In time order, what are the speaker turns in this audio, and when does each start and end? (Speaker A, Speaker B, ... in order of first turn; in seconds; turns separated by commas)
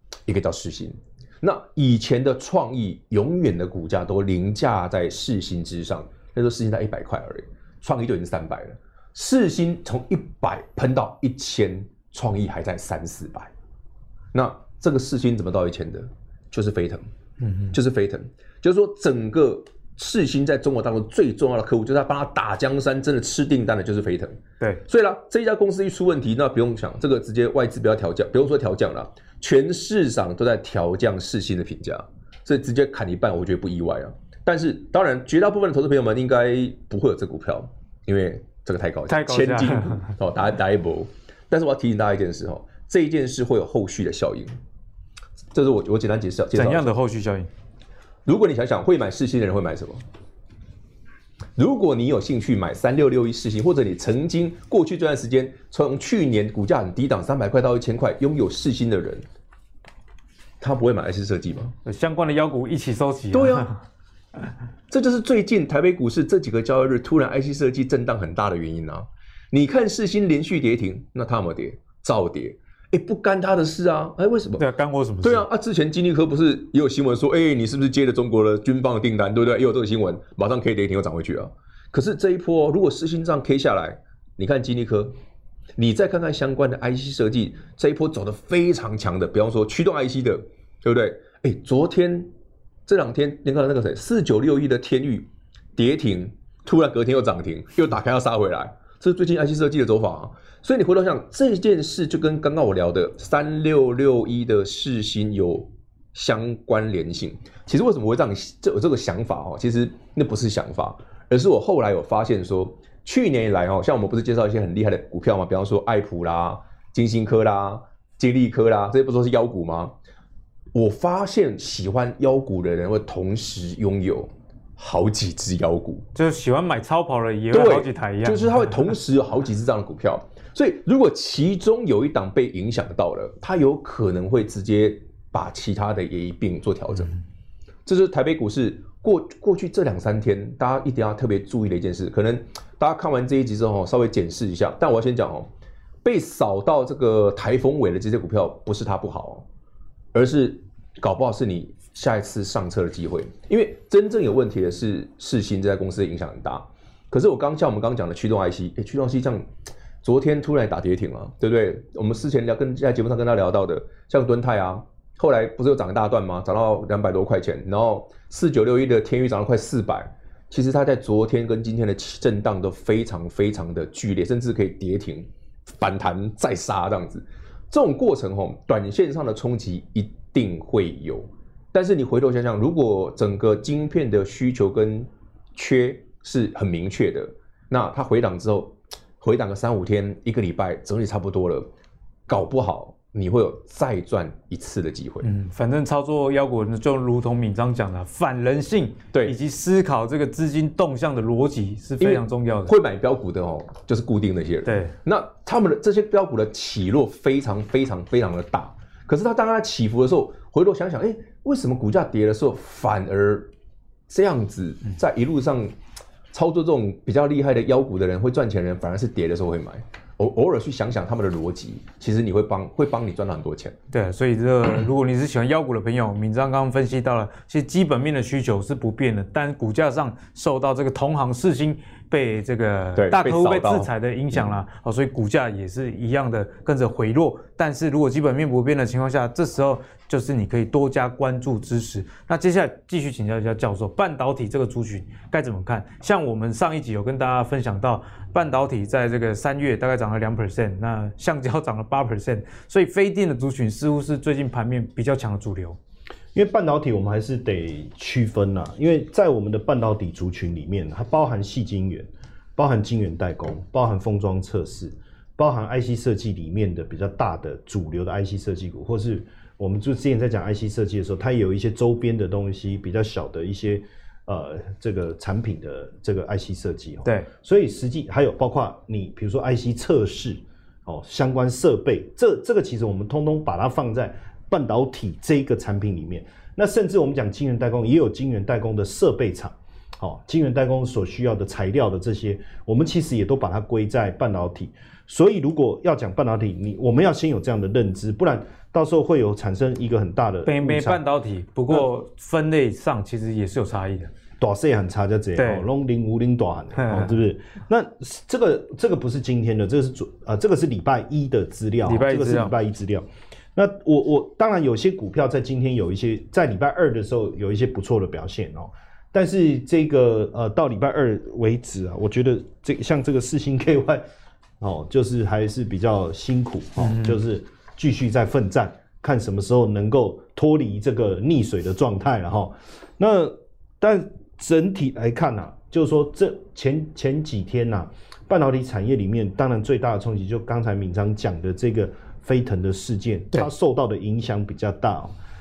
Speaker A: 0.3-13.5, Speaker A: 14.3-17.1, Speaker B: 17.4-17.8, Speaker A: 17.7-44.6, Speaker B: 39.1-40.1, Speaker A: 45.5-46.8, Speaker B: 46.5-47.5, Speaker A: 48.3-50.0, Speaker A: 51.6-59.2, Speaker A: 60.6-61.7, Speaker B: 61.9-63.8, Speaker A: 63.3-63.7, Speaker A: 64.9-74.6, Speaker B: 74.6-75.5, Speaker A: 75.2-85.1, Speaker A: 85.8-92.3, Speaker A: 92.9-119.9, Speaker A: 120.7-126.1, Speaker B: 126.2-128.7, Speaker A: 127.5-137.1, Speaker A: 137.9-145.5, Speaker A: 146.0-149.4, Speaker A: 150.1-159.5, Speaker A: 160.0-175.3, Speaker A: 175.8-191.7, Speaker A: 192.3-195.3, Speaker B: 195.2-202.7, Speaker A: 202.0-213.5, Speaker B: 204.7-204.9, Speaker A: 214.1-215.7, Speaker A: 216.3-223.8, Speaker B: 223.9-255.8, Speaker A: 233.0-233.9, Speaker C: 256.3-301.0, Speaker B: 300.4-304.1, Speaker C: 304.4-324.0, Speaker B: 305.4-305.6, Speaker B: 306.8-307.1, Speaker B: 311.9-312.5, Speaker C: 324.6-345.1, Speaker B: 326.8-327.2